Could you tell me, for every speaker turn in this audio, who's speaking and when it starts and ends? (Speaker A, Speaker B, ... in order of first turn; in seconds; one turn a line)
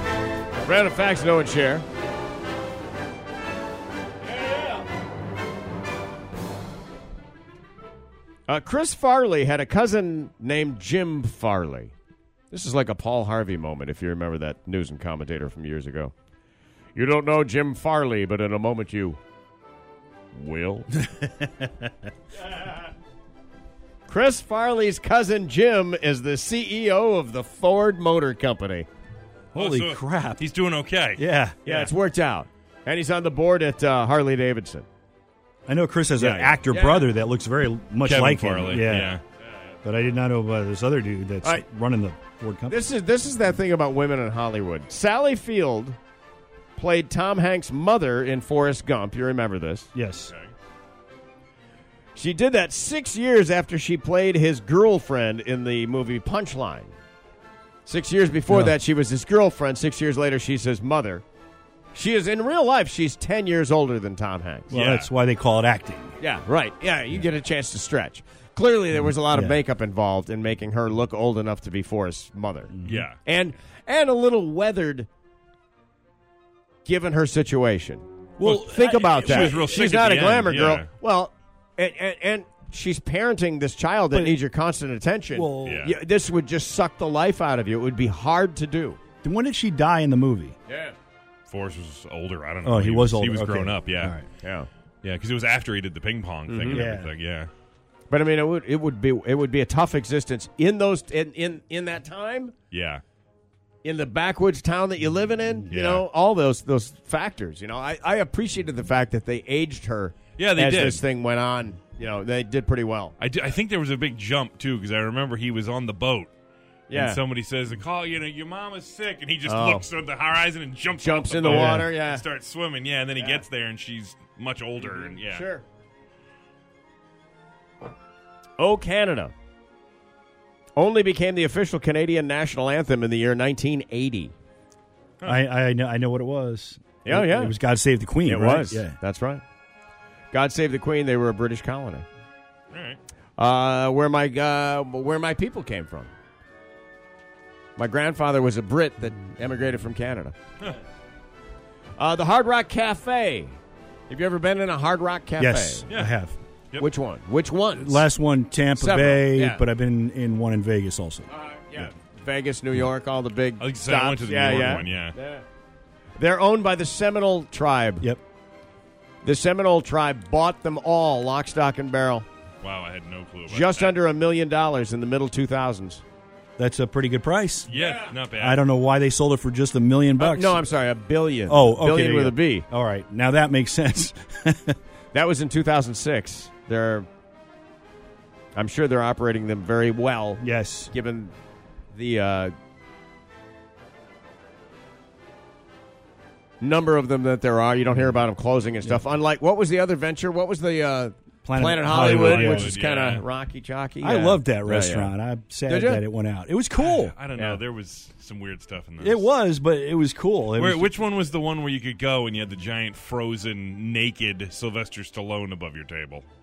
Speaker A: 0.6-1.8
Speaker A: 8.5-11.9
Speaker A: 12.5-16.1
Speaker A: 16.9-19.2
Speaker A: 20.3-20.9
Speaker B: 21.1-21.7
Speaker A: 22.5-22.7
Speaker A: 24.1-28.9
Speaker B: 29.5-30.4
Speaker C: 29.5-31.2
Speaker B: 31.2-31.9
Speaker A: 31.6-34.9
Speaker B: 35.7-39.2
Speaker A: 36.2-37.1
Speaker C: 38.0-39.2
Speaker B: 39.8-42.8
Speaker A: 42.7-46.0
Speaker A: 46.8-49.9
Speaker B: 49.9-50.3
Speaker A: 52.1-56.9
Speaker A: 57.9-61.2
Speaker B: 58.5-58.7
Speaker A: 61.9-64.8
Speaker B: 64.7-66.2
Speaker C: 64.7-65.1
Speaker A: 66.2-72.7
Speaker B: 69.3-69.6
Speaker B: 72.7-73.1
Speaker C: 72.8-73.2
Speaker A: 73.2-75.1
Speaker A: 76.8-89.0
Speaker C: 78.4-80.9
Speaker B: 79.0-79.6
Speaker B: 84.1-84.4
Speaker B: 85.3-85.9
Speaker C: 85.6-86.0
Speaker B: 89.2-90.5
Speaker A: 90.7-91.0
Speaker C: 91.5-94.2
Speaker B: 92.6-94.2
Speaker A: 94.4-94.7
Speaker C: 95.0-97.5
Speaker A: 96.5-96.9
Speaker B: 96.7-97.1
Speaker A: 98.1-102.5
Speaker C: 102.7-103.0
Speaker A: 103.8-113.1
Speaker C: 105.7-106.0
Speaker C: 110.4-111.0
Speaker C: 113.2-116.3
Speaker A: 116.9-117.2
Speaker C: 116.9-125.5
Speaker A: 119.5-119.9
Speaker A: 120.9-122.2
Speaker B: 121.4-121.9
Speaker A: 123.2-123.4
Speaker A: 124.8-125.6
Speaker A: 128.6-129.3
Speaker A: 130.8-134.3
Speaker B: 135.2-139.0
Speaker A: 137.1-137.6
Speaker A: 138.2-139.4
Speaker A: 140.3-142.1
Speaker C: 142.7-143.0
Speaker A: 143.4-146.1
Speaker A: 147.8-150.3
Speaker A: 152.0-153.6
Speaker A: 154.1-155.9
Speaker B: 155.4-156.4
Speaker C: 155.9-156.1
Speaker A: 156.8-158.1
Speaker B: 157.8-161.3
Speaker A: 158.8-159.6
Speaker A: 161.3-165.4
Speaker C: 163.6-165.2
Speaker A: 166.2-168.1
Speaker A: 169.2-172.2
Speaker C: 172.6-174.0
Speaker A: 173.5-176.0
Speaker B: 176.6-177.7
Speaker C: 177.7-178.6
Speaker B: 178.4-180.7
Speaker A: 180.2-182.7
Speaker B: 181.5-184.8
Speaker A: 185.1-187.1
Speaker A: 188.6-191.3
Speaker B: 190.4-190.9
Speaker A: 191.9-192.5
Speaker A: 196.6-205.1
Speaker B: 201.4-202.7
Speaker C: 201.8-203.2
Speaker B: 204.0-207.2
Speaker A: 205.7-206.0
Speaker C: 206.8-209.3
Speaker A: 207.4-207.6
Speaker B: 209.0-210.9
Speaker C: 210.5-216.2